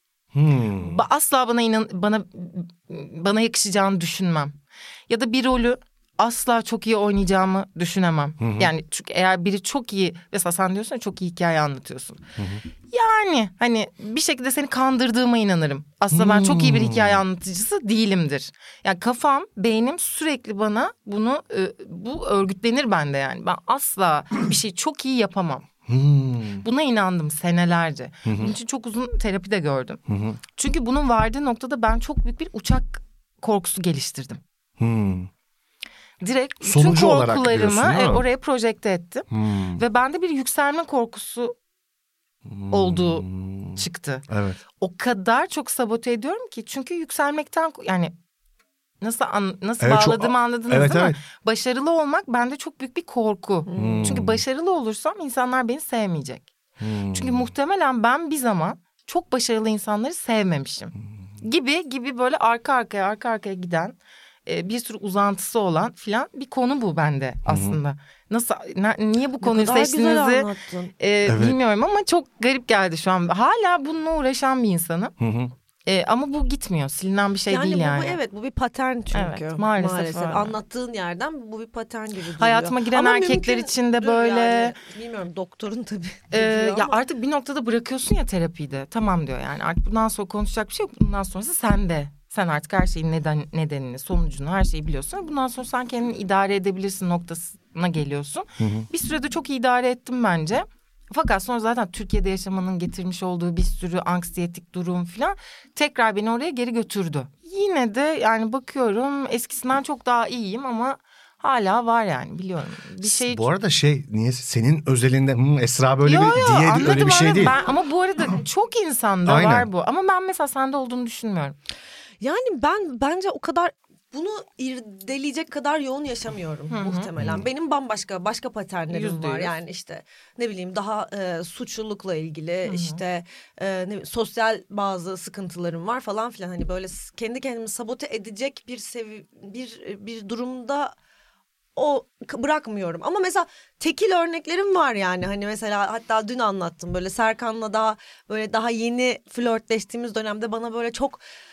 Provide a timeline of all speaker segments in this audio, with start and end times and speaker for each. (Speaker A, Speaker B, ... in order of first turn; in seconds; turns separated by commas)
Speaker A: 0.3-1.0, Speaker B: 0.8-4.6, Speaker B: 5.1-12.2, Speaker A: 8.4-8.7, Speaker A: 12.4-12.6, Speaker B: 12.9-25.7, Speaker A: 16.1-17.2, Speaker A: 25.9-26.6, Speaker B: 26.6-30.0, Speaker A: 28.2-28.5, Speaker A: 30.1-30.4, Speaker B: 30.5-34.4, Speaker A: 34.8-35.3, Speaker B: 36.2-41.5, Speaker A: 36.6-38.2, Speaker A: 39.3-39.8, Speaker A: 42.5-44.6, Speaker B: 42.7-44.3, Speaker B: 44.8-48.1, Speaker B: 49.0-56.5, Speaker A: 49.8-51.2, Speaker C: 53.7-54.2, Speaker A: 53.7-54.4, Speaker A: 56.8-57.5, Speaker B: 57.1-75.1, Speaker A: 67.5-67.8, Speaker C: 69.4-70.9, Speaker A: 71.2-71.6, Speaker A: 75.2-75.5, Speaker B: 75.8-78.2, Speaker C: 77.5-87.0, Speaker B: 79.1-80.5, Speaker B: 82.4-84.7, Speaker B: 86.3-113.5, Speaker A: 98.6-98.9, Speaker A: 113.0-117.6, Speaker B: 116.0-121.5, Speaker A: 119.2-119.7, Speaker C: 122.2-140.9, Speaker B: 126.7-127.1, Speaker A: 127.2-127.5, Speaker B: 128.9-129.6, Speaker B: 132.6-133.0, Speaker C: 141.7-151.2